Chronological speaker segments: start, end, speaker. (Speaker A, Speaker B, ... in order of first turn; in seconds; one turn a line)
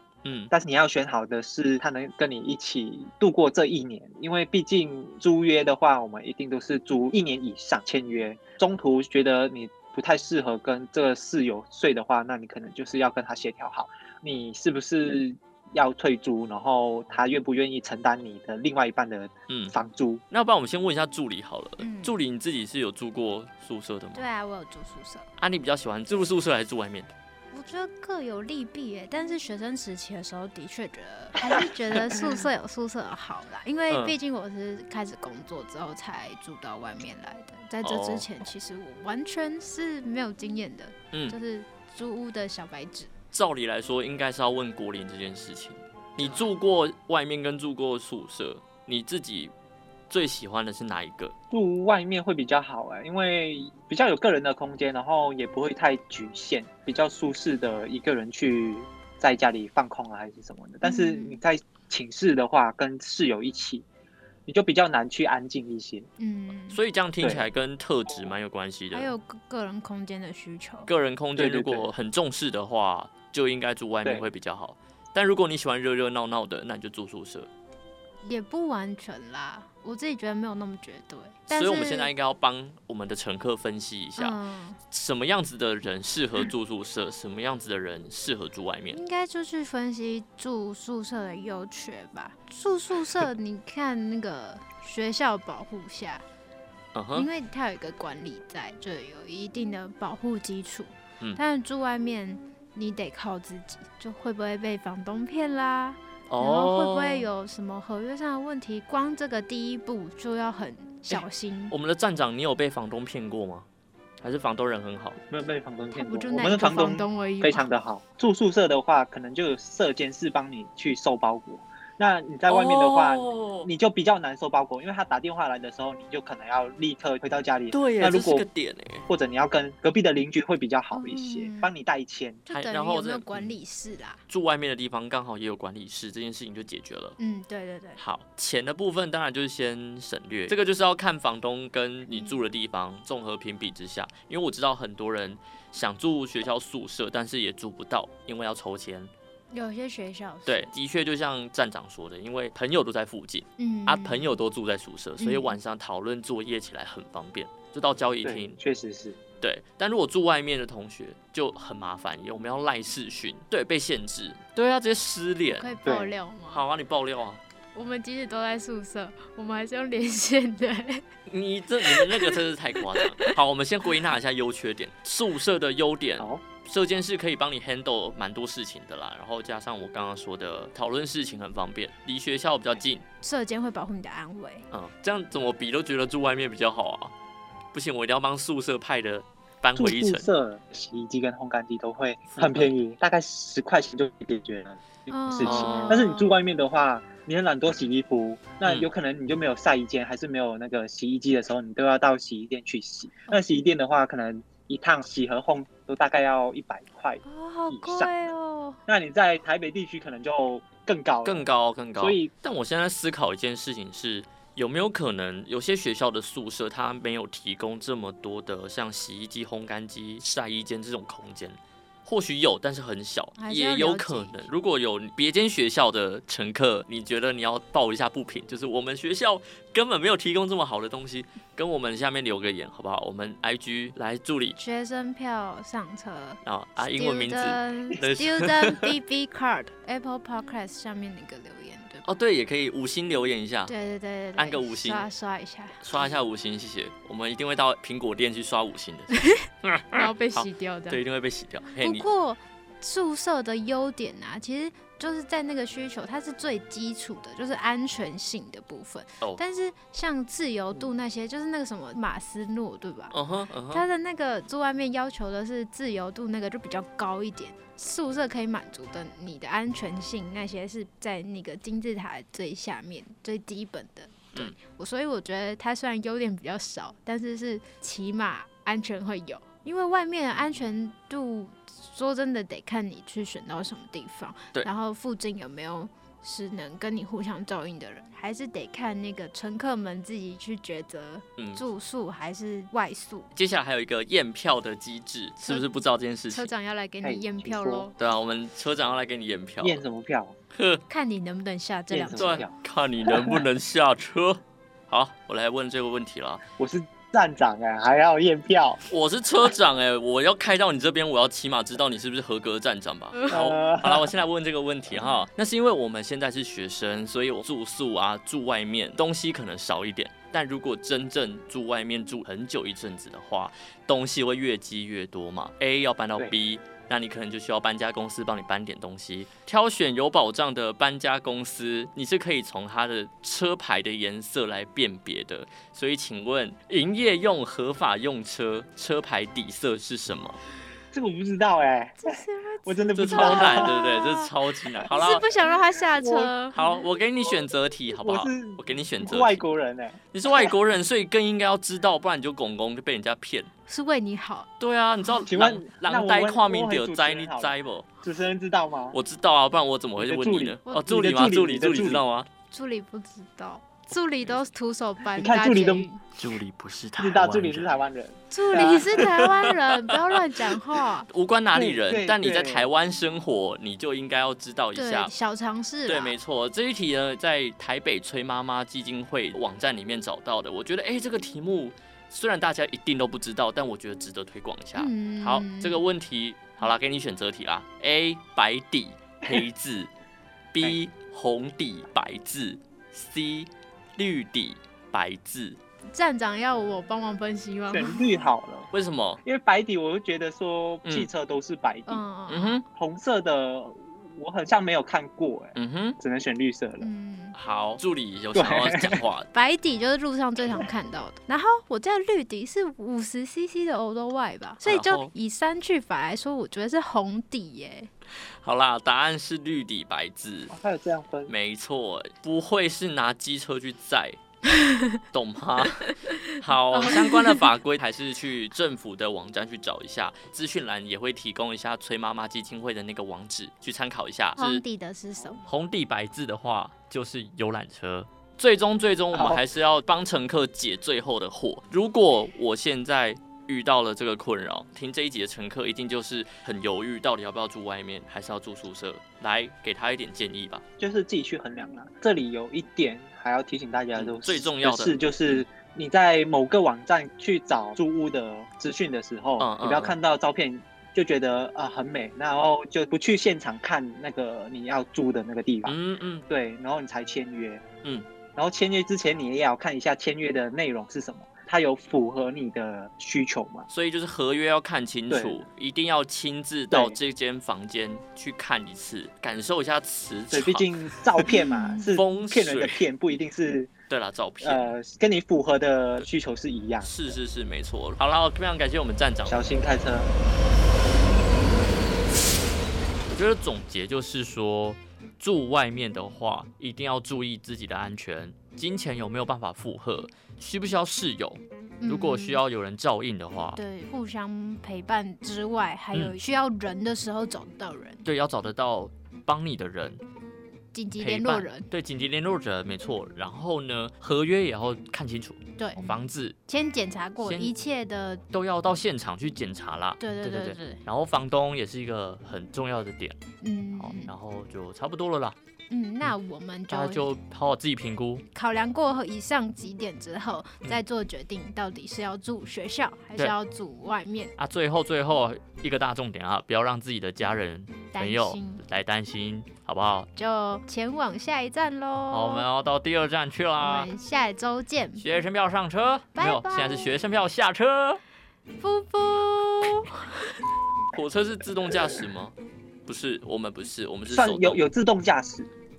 Speaker A: 0.2-0.5
Speaker B: 0.5-20.2
Speaker A: 19.5-19.7
Speaker A: 20.3-24.2
Speaker C: 21.8-22.2
Speaker C: 24.1-25.3
Speaker A: 25.4-27.1
Speaker C: 27.5-43.1
Speaker A: 33.9-34.1
Speaker A: 37.8-38.3
Speaker A: 41.1-41.4
Speaker A: 43.3-49.5
Speaker A: 50.1-51.3
Speaker B: 51.5-63.9
Speaker C: 60.8-61.4
Speaker B: 64.5-66.1
Speaker C: 66.2-66.8
Speaker A: 66.7-69.1
Speaker B: 67.2-67.5
Speaker C: 68.9-70.9
Speaker A: 70.9-77.5
Speaker B: 71.3-71.9
Speaker C: 78.2-82.1
Speaker A: 81.5-84.4
Speaker C: 84.2-84.8
Speaker A: 84.9-89.0
Speaker C: 88.9-96.2
Speaker A: 96.9-97.3
Speaker C: 97.1-111.7
Speaker A: 106.3-107.3
Speaker A: 111.1-113.7
Speaker A: 114.2-115.2
Speaker B: 115.3-128.4
Speaker C: 115.9-117.7
Speaker A: 122.5-123.7
Speaker A: 127.7-129.1
Speaker B: 129.1-132.4
Speaker C: 130.9-131.7
Speaker C: 132.4-134.2
Speaker A: 132.5-133.5
Speaker A: 134.3-137.2
Speaker C: 137.2-138.0
Speaker A: 138.0-149.1
Speaker C: 142.1-142.4
Speaker C: 149.5-150.7
Speaker A: 150.4-158.6
Speaker C: 153.6-154.3
Speaker C: 155.2-155.6
Speaker B: 158.2-159.2
Speaker A: 159.4-165.7
Speaker C: 165.5-166.7
Speaker B: 165.8-166.1
Speaker A: 166.5-167.4
Speaker C: 167.7-171.1
Speaker A: 171.3-183.0
Speaker C: 171.8-172.4
Speaker C: 173.0-173.3
Speaker C: 183.2-184.7
Speaker A: 184.7-187.1
Speaker A: 187.7-190.3
Speaker B: 189.8-208.3
Speaker A: 192.3-192.7
Speaker C: 195.1-196.4
Speaker A: 195.4-196.0
Speaker A: 198.6-198.9
Speaker C: 207.2-208.8
Speaker B: 208.9-211.4
Speaker A: 211.2-234.6
Speaker B: 212.0-212.3
Speaker C: 223.4-224.5
Speaker C: 234.6-242.1
Speaker A: 236.4-238.9
Speaker A: 242.0-243.7
Speaker C: 243.7-246.1
Speaker A: 244.3-245.1
Speaker A: 245.8-252.1
Speaker C: 249.9-251.0
Speaker C: 251.8-263.1
Speaker A: 263.1-263.8
Speaker C: 263.7-293.3
Speaker A: 291.4-291.6
Speaker A: 293.3-296.5
Speaker C: 295.4-295.8
Speaker C: 296.3-298.0
Speaker B: 297.0-297.9
Speaker A: 298.0-299.8
Speaker B: 299.6-300.4
Speaker A: 300.5-300.8
Speaker C: 300.9-302.4
Speaker B: 301.9-302.5
Speaker A: 302.1-306.4
Speaker B: 303.1-303.4
Speaker B: 306.6-308.8
Speaker A: 308.9-340.4
Speaker B: 313.3-314.1
Speaker B: 340.9-343.7
Speaker C: 342.0-344.3
Speaker A: 342.9-345.3
Speaker C: 344.8-346.6
Speaker B: 345.9-346.3
Speaker A: 346.5-349.4
Speaker B: 347.2-350.5
Speaker A: 350.1-353.5
Speaker C: 353.7-354.5
Speaker A: 354.6-357.9
Speaker B: 355.3-359.0
Speaker A: 358.9-362.3
Speaker B: 360.0-362.0
Speaker C: 360.7-360.9
Speaker C: 362.5-366.0
Speaker B: 365.1-365.9
Speaker A: 366.1-367.7
Speaker B: 367.0-369.1
Speaker C: 368.3-371.1
Speaker A: 368.6-370.2
Speaker A: 371.1-375.1
Speaker B: 371.5-372.7
Speaker C: 374.7-376.1
Speaker A: 375.9-389.9
Speaker C: 384.8-385.8
Speaker A: 390.5-395.6
Speaker C: 395.9-398.1
Speaker B: 397.7-398.7
Speaker A: 398.7-399.2
Speaker B: 399.2-402.0
Speaker A: 400.8-401.1
Speaker C: 401.9-402.6
Speaker A: 402.3-402.6
Speaker B: 402.7-406.9
Speaker A: 405.6-406.0
Speaker C: 406.8-407.4
Speaker A: 407.3-409.3
Speaker B: 408.3-409.0
Speaker C: 409.3-417.9
Speaker A: 414.6-415.1
Speaker A: 418.4-420.5
Speaker B: 420.5-421.3
Speaker A: 421.3-424.2
Speaker A: 425.1-434.6
Speaker C: 426.7-427.5
Speaker C: 434.4-435.5
Speaker A: 435.4-450.6
Speaker B: 439.1-439.4
Speaker B: 450.8-465.8
Speaker A: 453.9-455.4
Speaker A: 459.4-460.0
Speaker A: 465.6-466.2
Speaker B: 466.3-467.6
Speaker B: 468.3-473.7
Speaker A: 473.7-481.3
Speaker B: 475.1-475.4
Speaker B: 476.7-477.0
Speaker B: 480.3-483.7
Speaker C: 481.2-481.9
Speaker A: 481.8-482.9
Speaker A: 483.9-484.8
Speaker B: 484.4-487.1
Speaker A: 486.8-489.4
Speaker B: 489.2-490.1
Speaker A: 493.1-503.6
Speaker C: 501.8-502.4
Speaker C: 503.6-508.0
Speaker A: 505.9-506.2
Speaker A: 508.0-510.0
Speaker C: 510.7-511.7
Speaker A: 511.0-516.4
Speaker C: 515.6-518.2
Speaker A: 517.2-517.5
Speaker A: 518.3-523.2
Speaker C: 520.0-520.8
Speaker C: 523.4-524.1
Speaker A: 523.8-525.4
Speaker C: 525.7-527.1
Speaker A: 526.7-528.2
Speaker C: 528.3-534.3
Speaker A: 534.4-540.1
Speaker C: 537.9-538.6
Speaker C: 540.1-542.5
Speaker A: 542.1-543.9
Speaker C: 543.6-545.2
Speaker A: 545.0-548.0
Speaker C: 546.1-547.0
Speaker C: 548.6-550.1
Speaker A: 550.9-554.6
Speaker B: 554.1-555.5